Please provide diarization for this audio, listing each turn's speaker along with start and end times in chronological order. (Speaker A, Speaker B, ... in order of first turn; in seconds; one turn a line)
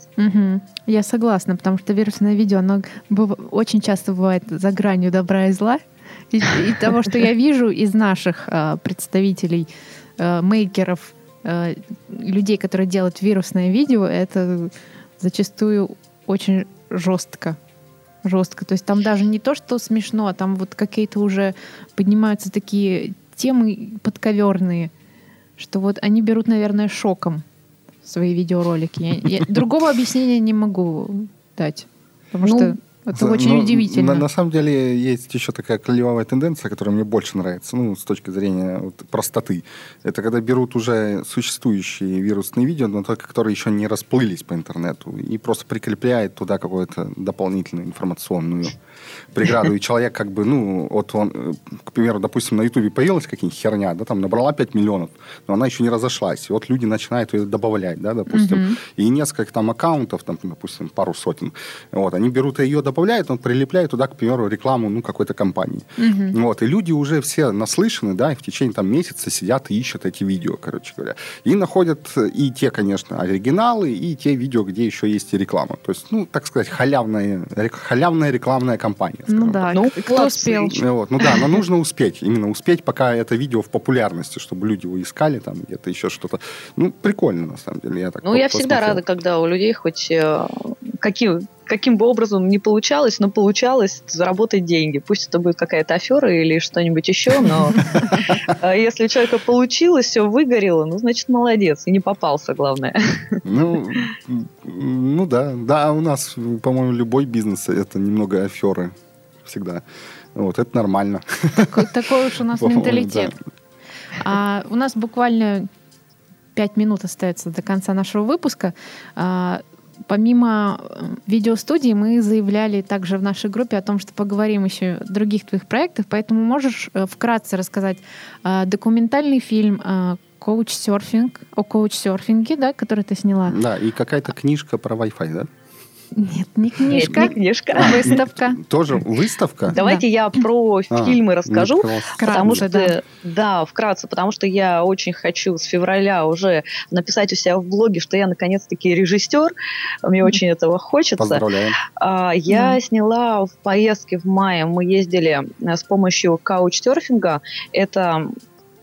Speaker A: 0.2-17.6
Speaker A: 18.2-24.9
Speaker A: 25.6-27.4
Speaker A: 28.0-34.3
Speaker B: 32.4-32.7
Speaker C: 33.1-48.8
Speaker C: 49.3-79.7
Speaker A: 58.3-58.8
Speaker A: 66.0-66.4
Speaker A: 79.3-80.8
Speaker B: 79.7-81.5
Speaker C: 80.7-89.0
Speaker B: 88.2-97.8
Speaker A: 97.5-98.2
Speaker C: 97.8-98.4
Speaker B: 98.5-103.4
Speaker C: 103.5-109.8
Speaker C: 110.3-111.9
Speaker A: 111.7-113.3
Speaker C: 112.5-113.4
Speaker A: 114.2-115.7
Speaker A: 116.5-133.6
Speaker C: 133.5-135.5
Speaker A: 136.1-138.6
Speaker B: 136.9-138.1
Speaker C: 137.8-139.8
Speaker A: 139.7-140.0
Speaker B: 139.7-149.5
Speaker C: 140.9-142.7
Speaker A: 142.2-142.9
Speaker B: 150.0-158.3
Speaker C: 151.2-151.8
Speaker A: 152.5-152.8